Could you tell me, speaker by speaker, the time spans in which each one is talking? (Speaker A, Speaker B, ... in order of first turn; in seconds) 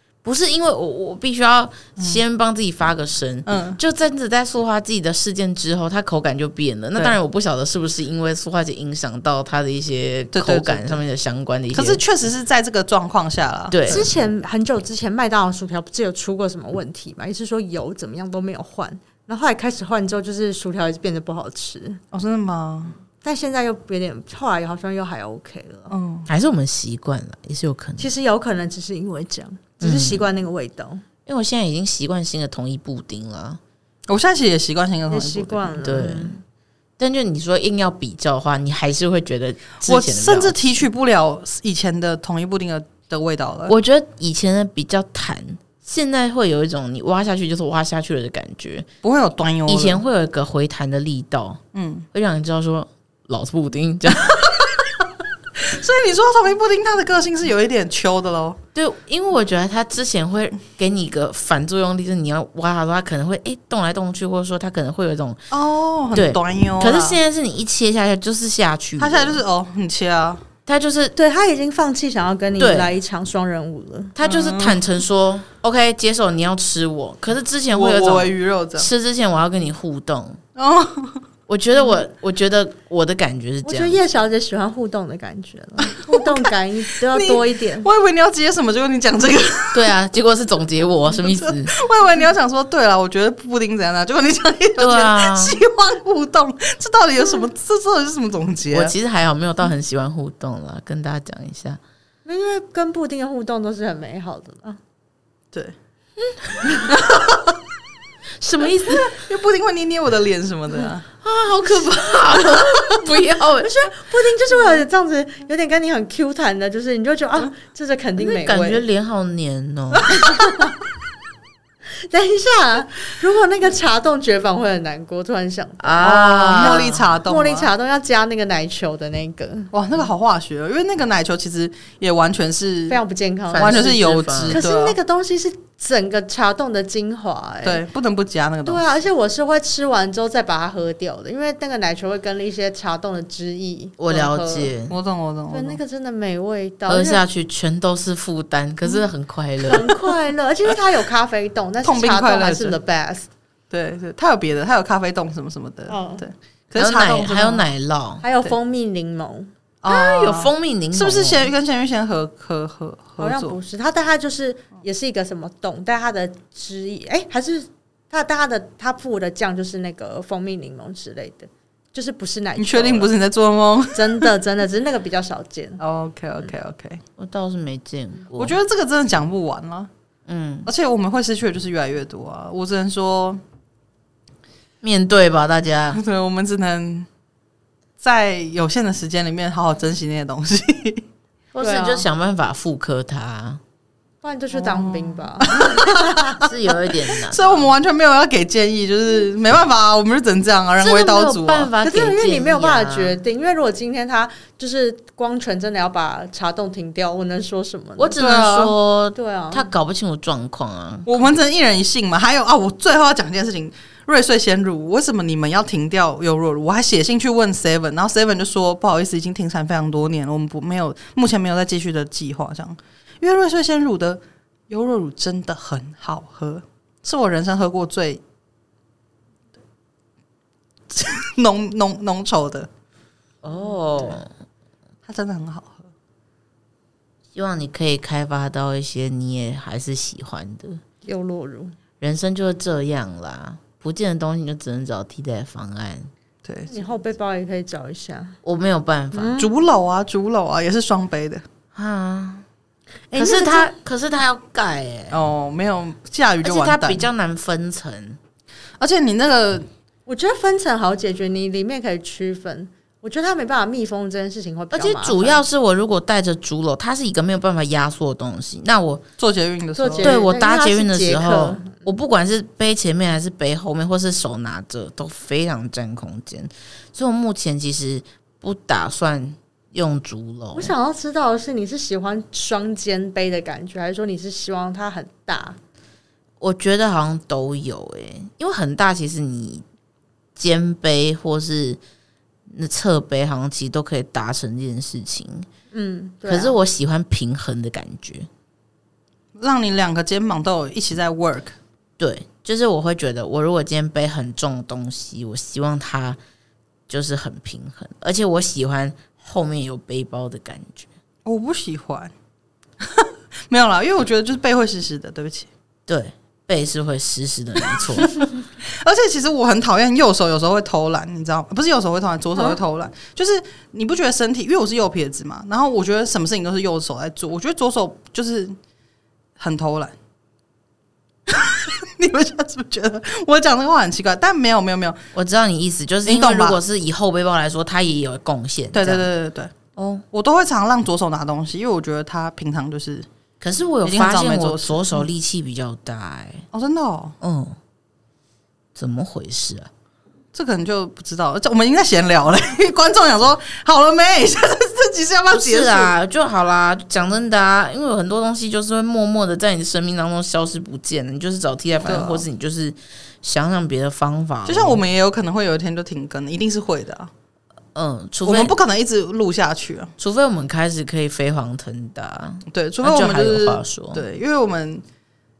Speaker A: 0.2-12.0, 13.7-14.1, 26.3-28.1, 29.8-30.2, 31.2-33.6, 35.8-36.4, 37.0-40.9, 43.7-48.9, 49.7-51.6, 52.1-54.7, 58.7-65.4, 66.1-69.4, 70.7-71.1, 72.6-72.9, 74.2-80.4, 81.5-84.0, 89.7-91.7, 94.8-95.6, 98.7-101.8, 106.4-106.8, 108.4-109.2, 111.2-113.9, 118.2-120.3, 125.8-127.1, 133.5-134.6, 144.0-145.0, 146.9-150.0, 156.8-158.2, 159.9-161.5, 177.2-178.6, 180.3-180.7, 184.8-186.0, 191.5-193.6, 196.2-197.7, 200.8-203.2, 208.0-211.1, 233.4-234.3, 237.3-240.8, 242.0-246.1, 248.4-249.3, 251.7-252.4, 253.1-255.2, 256.4-258.2, 264.7-269.0, 270.0-280.7, 286.4-289.6, 290.4-291.8, 292.5-295.5, 296.3-298.3, 302.0-306.2, 306.9-310.9, 315.9-318.2, 335.1-339.1, 339.8-340.0, 343.4-346.4, 347.2-347.6, 348.8-349.7, 355.3-364.8, 367.7-368.5, 370.0-374.0
Speaker B: 3.5-3.8, 10.3-11.0, 11.7-14.1, 22.1-22.9, 25.9-26.3, 34.1-35.8, 39.8-43.8, 49.0-50.0, 51.7-52.1, 54.3-54.8, 55.5-58.6, 65.5-67.2, 69.0-70.4, 74.2-74.8, 77.7-78.9, 80.5-81.2, 85.9-86.4, 87.1-89.9, 91.1-98.9, 106.9-107.5, 108.9-111.0, 126.0-127.7, 129.7-133.0, 133.6-135.0, 137.6-138.9, 144.9-145.8, 151.8-152.8, 153.7-157.7, 159.8-163.6, 172.6-174.3, 175.8-177.0, 178.4-179.9, 180.7-183.4, 185.9-187.1, 188.0-191.1, 194.5-201.7, 208.2-208.8, 211.1-228.2, 230.9-232.7, 235.1-235.9, 246.4-246.7, 249.4-251.4, 255.1-257.0, 258.8-259.7, 269.2-270.1, 299.4-301.6, 311.2-312.1, 312.8-315.5, 318.0-328.5, 329.4-329.9, 331.3-335.0, 336.1-336.6, 338.7-339.5, 340.1-343.1, 343.8-345.0, 346.5-347.1, 350.3-355.9, 361.8-362.2, 364.5-367.1, 368.2-369.9, 372.5-374.8
Speaker C: 13.9-22.0, 23.2-25.9, 28.0-31.0, 35.1-36.4, 71.2-74.1, 83.6-87.9, 102.2-104.8, 113.6-118.8, 120.2-120.8, 121.9-129.7, 132.9-137.8, 138.6-144.7, 145.5-147.2, 149.6-153.3, 155.9-156.2, 158.2-159.5, 163.2-173.1, 173.9-175.8, 191.6-192.1, 194.2-196.2, 201.8-208.1, 209.1-209.7, 241.0-241.7, 246.7-248.4, 249.1-249.5, 253.1-253.7, 260.1-265.4, 269.8-271.7, 280.5-285.6, 295.7-296.6